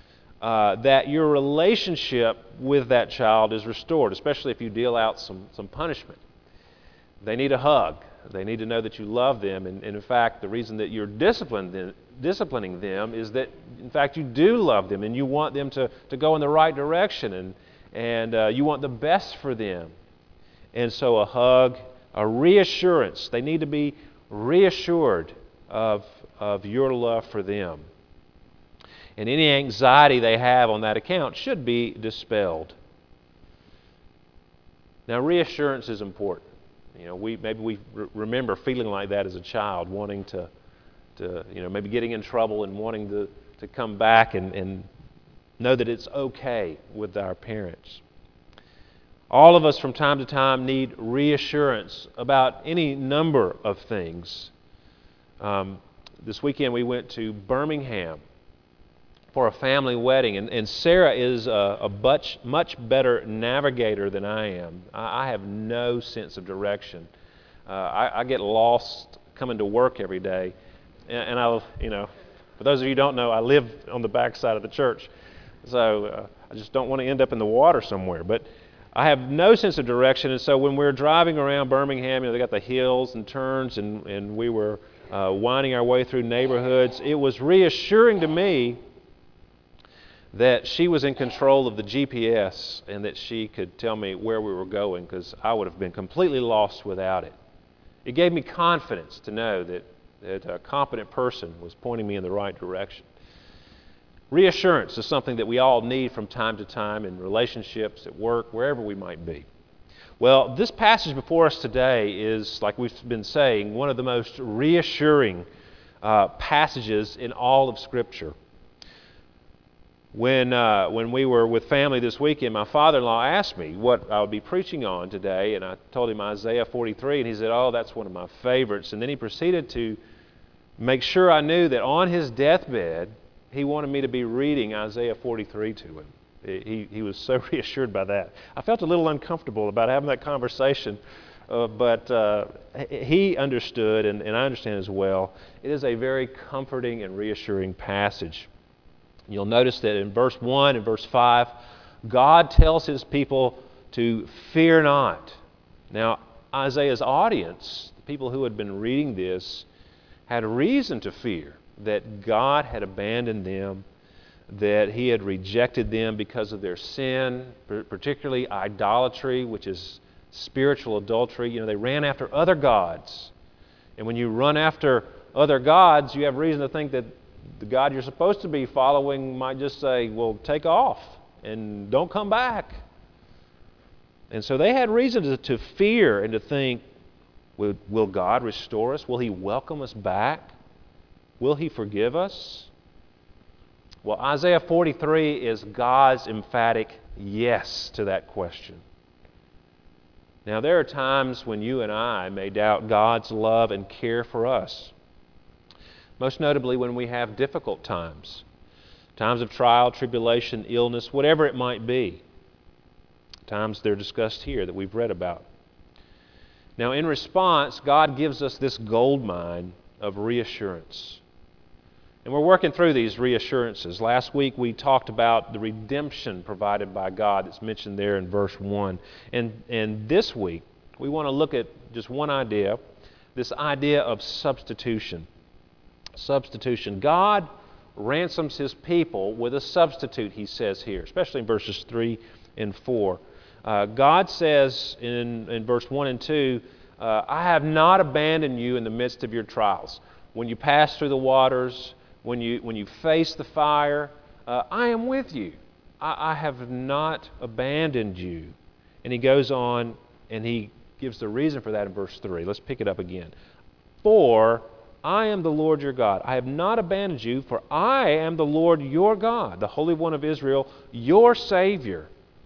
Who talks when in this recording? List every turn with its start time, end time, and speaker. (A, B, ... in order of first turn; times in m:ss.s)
0:00.4-0:06.2 A
0:07.2-0:19.9 A
0:20.7-0:27.8 A
0:29.2-0:32.8 A
0:35.1-0:40.5 A
0:41.2-0:44.9 A
0:45.6-0:48.0 A
0:49.3-0:54.5 A
0:55.4-0:58.2 A
0:59.3-1:07.1 A
1:07.7-1:10.5 A
1:11.1-1:15.1 A
1:15.6-1:28.8 A
1:30.3-1:37.3 A
1:38.0-1:43.1 A
1:44.3-1:49.4 A
1:50.2-1:55.4 A
1:56.0-1:58.3 A
2:00.1-2:10.0 A
2:10.8-2:28.5 A
2:29.3-2:31.5 A
2:32.0-2:35.4 A
2:35.9-2:39.7 A
2:40.3-2:43.8 A
2:44.5-2:53.3 A
2:54.0-3:02.8 A
3:04.3-3:06.8 A
3:07.6-3:10.5 A
3:11.4-3:12.7 A
3:14.0-3:18.8 A
3:20.4-3:24.9 A
3:26.2-3:28.4 A
3:29.2-3:32.2 A
3:33.4-3:35.4 A
3:36.8-3:41.2 A
3:42.2-3:52.8 A
3:53.3-3:55.3 A
3:56.1-4:23.3 A
4:24.0-4:32.1 A